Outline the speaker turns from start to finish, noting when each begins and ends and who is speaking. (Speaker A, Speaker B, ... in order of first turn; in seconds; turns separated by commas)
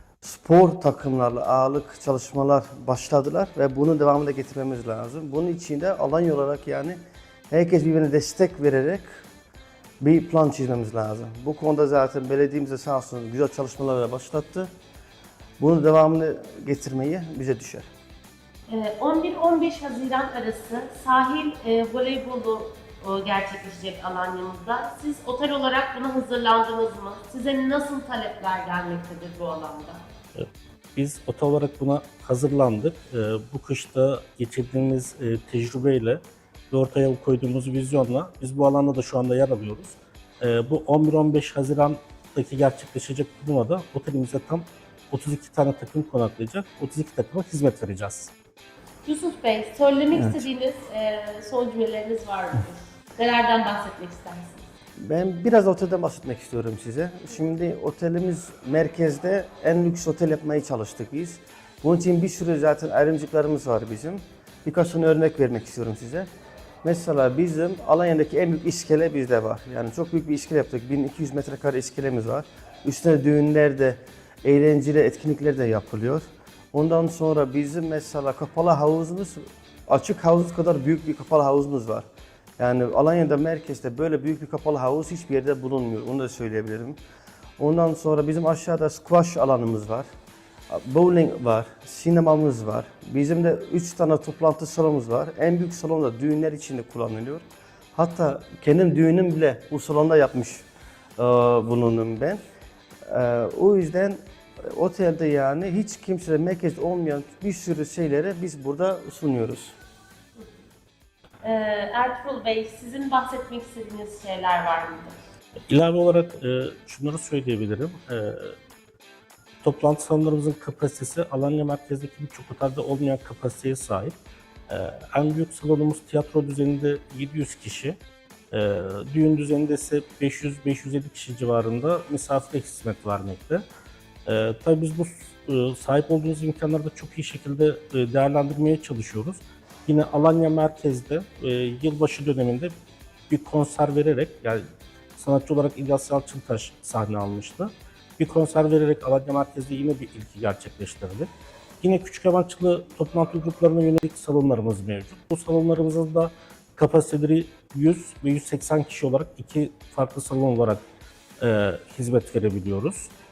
Speaker A: 0.2-7.0, Speaker A: 7.5-9.2, Speaker A: 10.0-14.7, Speaker A: 15.6-17.9, Speaker B: 18.7-30.0, Speaker C: 30.4-36.2, Speaker C: 36.7-48.3, Speaker B: 49.1-54.6, Speaker A: 50.1-50.5, Speaker A: 55.0-66.3, Speaker A: 66.8-82.1, Speaker A: 82.6-87.0, Speaker A: 87.6-90.1, Speaker A: 90.7-97.4, Speaker A: 98.0-100.6, Speaker A: 101.2-102.4, Speaker A: 103.1-109.8, Speaker B: 111.4-115.2, Speaker C: 115.7-118.5, Speaker C: 119.6-124.2, Speaker C: 124.7-128.0, Speaker C: 128.5-133.7, Speaker C: 134.3-142.7, Speaker C: 143.3-144.7, Speaker C: 145.2-151.3, Speaker C: 151.8-160.8, Speaker C: 161.4-163.1